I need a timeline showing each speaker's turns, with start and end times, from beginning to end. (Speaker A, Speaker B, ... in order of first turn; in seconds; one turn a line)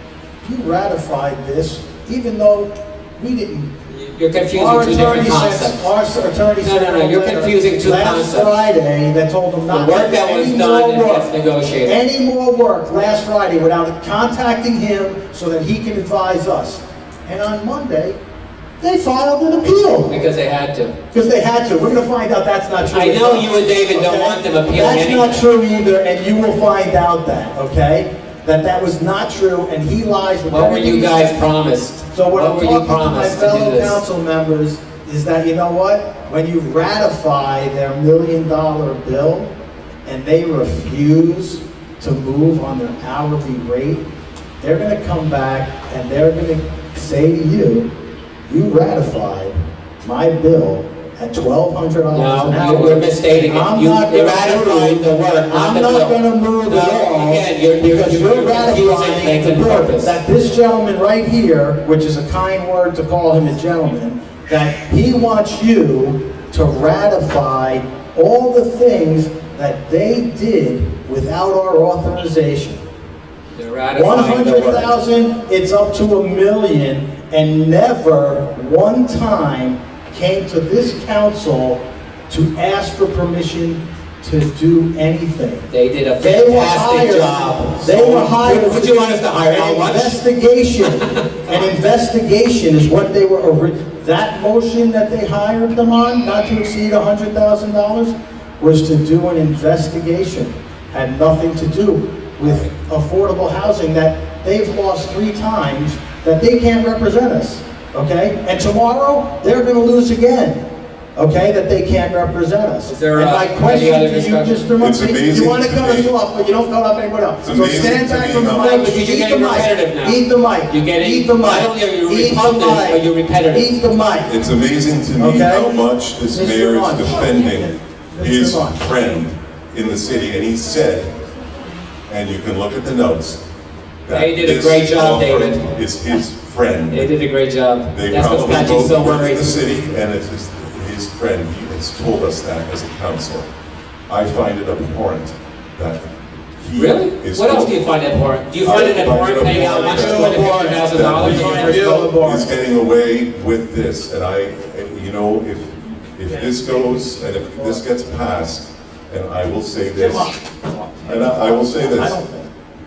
Speaker A: 0.4-3.7
Speaker B: 3.9-5.9
Speaker A: 4.5-11.3
Speaker B: 6.6-8.6
Speaker B: 9.7-11.9
Speaker A: 11.8-18.2
Speaker A: 18.8-20.2
Speaker B: 19.8-20.9
Speaker A: 21.1-31.4
Speaker B: 22.9-25.4
Speaker B: 30.5-34.0
Speaker A: 32.1-39.5
Speaker A: 40.0-44.0
Speaker A: 44.6-47.9
Speaker A: 48.5-72.8
Speaker B: 52.1-60.2
Speaker B: 73.5-74.9
Speaker A: 73.9-110.6
Speaker B: 85.7-90.2
Speaker B: 90.9-91.2
Speaker C: 102.4-102.7
Speaker A: 111.2-124.3
Speaker B: 112.9-114.7
Speaker C: 114.8-116.1
Speaker C: 117.4-118.9
Speaker B: 118.5-123.8
Speaker C: 124.3-131.1
Speaker A: 125.2-128.8
Speaker C: 132.1-133.4
Speaker C: 134.1-137.1
Speaker B: 134.1-135.6
Speaker B: 136.9-139.6
Speaker C: 137.9-143.5
Speaker C: 144.1-147.8
Speaker B: 146.7-152.1
Speaker C: 148.6-160.3
Speaker A: 149.5-152.5
Speaker A: 157.6-157.8
Speaker A: 159.9-162.5
Speaker C: 161.0-162.2